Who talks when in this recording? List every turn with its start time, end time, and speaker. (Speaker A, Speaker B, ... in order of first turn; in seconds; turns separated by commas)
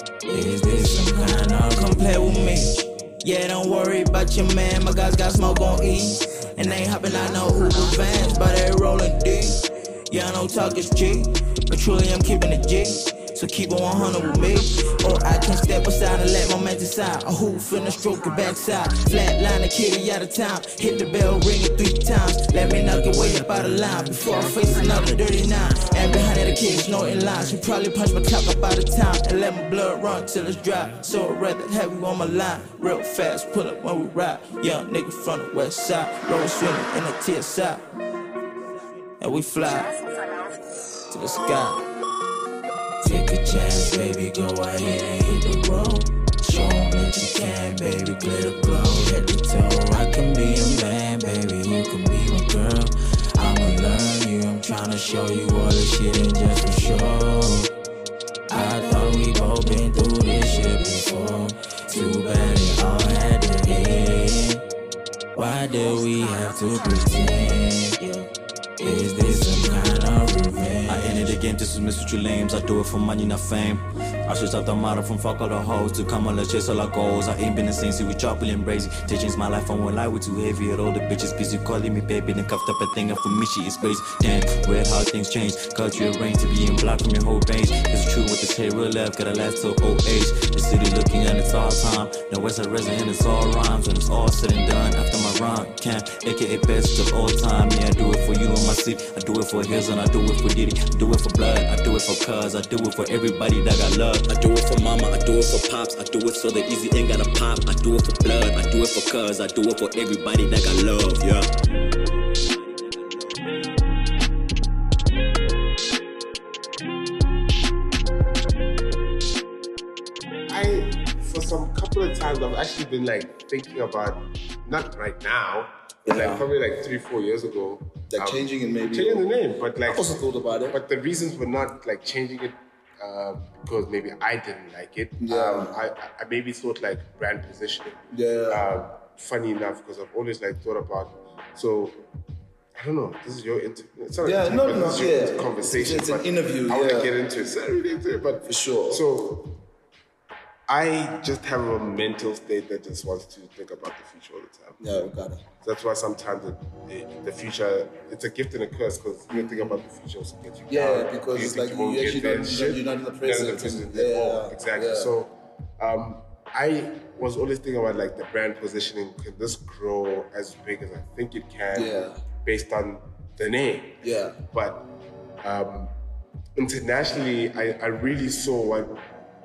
Speaker A: 0.3-37.9, Speaker A: 39.2-40.0, Speaker A: 41.1-41.8, Speaker A: 43.0-57.7, Speaker A: 58.5-64.6, Speaker A: 65.3-71.4, Speaker B: 70.9-113.6, Speaker C: 120.5-142.1, Speaker D: 126.0-126.5, Speaker D: 128.1-129.3, Speaker D: 129.8-130.8, Speaker D: 135.2-135.8, Speaker D: 138.1-138.7, Speaker C: 142.7-149.6, Speaker D: 144.2-147.1, Speaker D: 148.4-149.0, Speaker C: 150.7-154.8, Speaker D: 154.8-155.4, Speaker C: 155.6-174.9, Speaker D: 159.3-159.8, Speaker D: 160.7-165.1, Speaker D: 171.7-172.2, Speaker D: 174.0-174.4, Speaker C: 175.4-175.9, Speaker C: 176.6-179.1